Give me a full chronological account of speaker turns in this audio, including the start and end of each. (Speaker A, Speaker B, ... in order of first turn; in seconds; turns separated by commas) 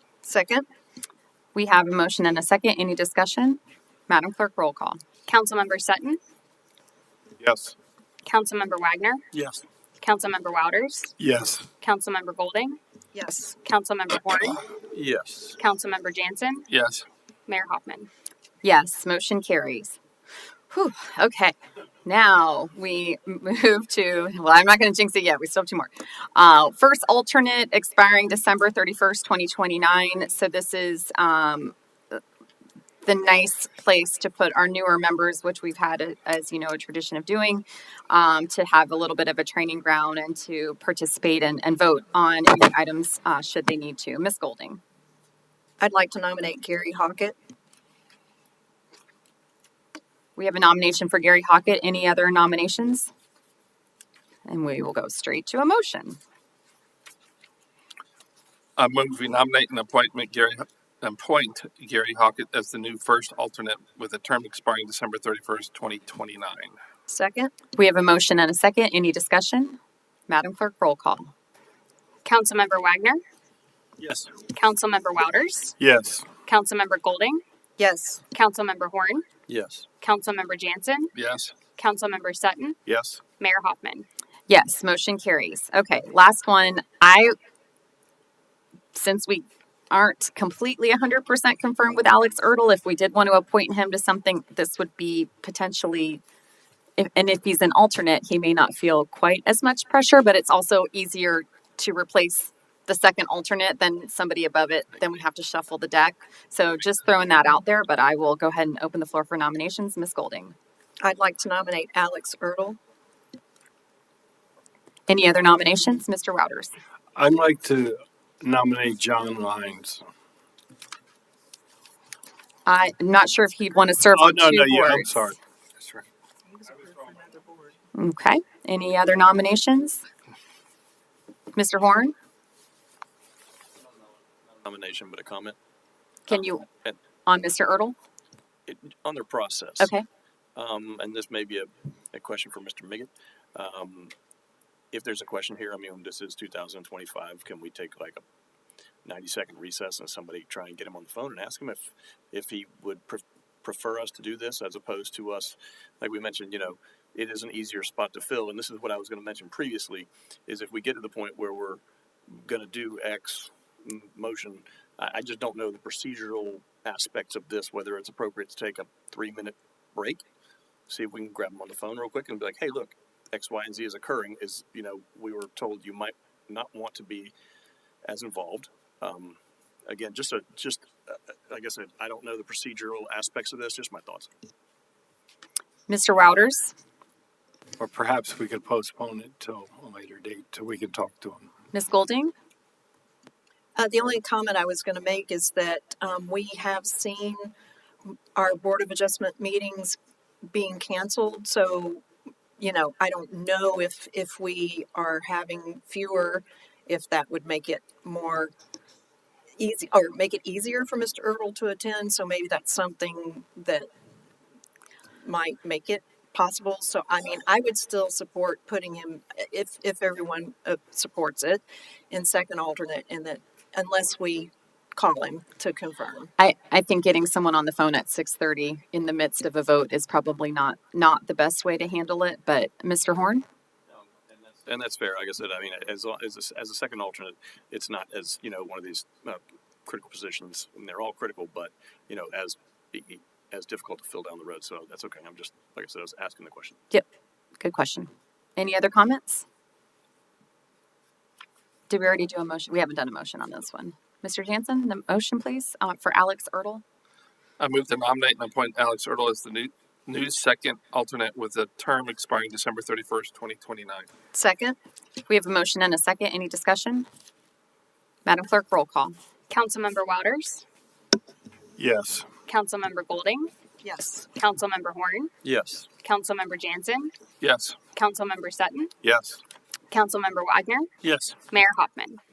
Speaker A: 0.2-0.7, Speaker B: 1.6-5.0, Speaker C: 5.3-6.2, Speaker D: 7.4-7.7, Speaker C: 8.3-9.2, Speaker D: 9.3-9.6, Speaker C: 10.0-11.1, Speaker E: 11.2-11.7, Speaker C: 11.8-12.8, Speaker A: 13.1-13.6, Speaker C: 13.6-14.7, Speaker D: 14.8-15.6, Speaker C: 15.6-16.7, Speaker F: 16.7-17.1, Speaker C: 17.5-18.1, Speaker B: 18.6-20.0, Speaker B: 20.7-32.2, Speaker B: 33.0-44.8, Speaker A: 45.8-47.4, Speaker B: 50.4-53.1, Speaker B: 54.5-56.2, Speaker F: 58.8-66.8, Speaker A: 67.1-67.5, Speaker B: 67.8-71.3, Speaker C: 72.2-73.2, Speaker D: 74.0-74.3, Speaker C: 74.5-75.8, Speaker E: 75.8-76.3, Speaker C: 76.5-77.4, Speaker A: 77.8-78.2, Speaker C: 78.3-79.3, Speaker D: 79.5-79.9, Speaker C: 80.0-81.1, Speaker F: 81.1-81.5, Speaker C: 81.8-82.8, Speaker D: 82.9-83.2, Speaker C: 83.4-84.1, Speaker B: 84.5-87.3, Speaker B: 88.9-96.2, Speaker B: 97.0-110.5, Speaker A: 111.0-112.8, Speaker B: 115.1-116.7, Speaker E: 117.2-120.0, Speaker B: 122.7-125.2, Speaker E: 124.1-126.0, Speaker A: 126.5-127.8, Speaker B: 127.9-130.0, Speaker B: 131.6-132.2, Speaker D: 134.5-135.6, Speaker B: 136.3-136.7, Speaker D: 136.3-137.0, Speaker B: 137.3-138.0, Speaker D: 138.7-139.9, Speaker B: 139.8-140.1, Speaker D: 140.6-144.1, Speaker D: 144.9-148.2, Speaker D: 149.1-170.2, Speaker D: 170.9-177.3, Speaker D: 178.1-184.3, Speaker B: 185.9-186.7, Speaker E: 187.8-191.5, Speaker B: 191.7-192.3, Speaker A: 193.8-197.5, Speaker A: 198.1-202.0, Speaker A: 202.6-208.5, Speaker A: 209.6-213.9, Speaker A: 215.2-226.3, Speaker B: 226.4-233.4, Speaker D: 233.9-246.8, Speaker B: 247.6-249.4, Speaker B: 251.9-256.8, Speaker F: 257.6-264.1, Speaker A: 264.3-264.8, Speaker B: 265.3-267.1, Speaker B: 268.3-269.1, Speaker C: 269.5-270.6, Speaker E: 271.8-272.3, Speaker C: 272.5-273.5, Speaker A: 273.8-274.3, Speaker C: 274.4-275.3, Speaker D: 275.4-275.9, Speaker C: 276.0-277.1, Speaker F: 277.4-277.8, Speaker C: 277.9-278.9, Speaker D: 279.0-279.4, Speaker C: 279.9-280.9, Speaker F: 281.0-281.4, Speaker C: 281.5-282.2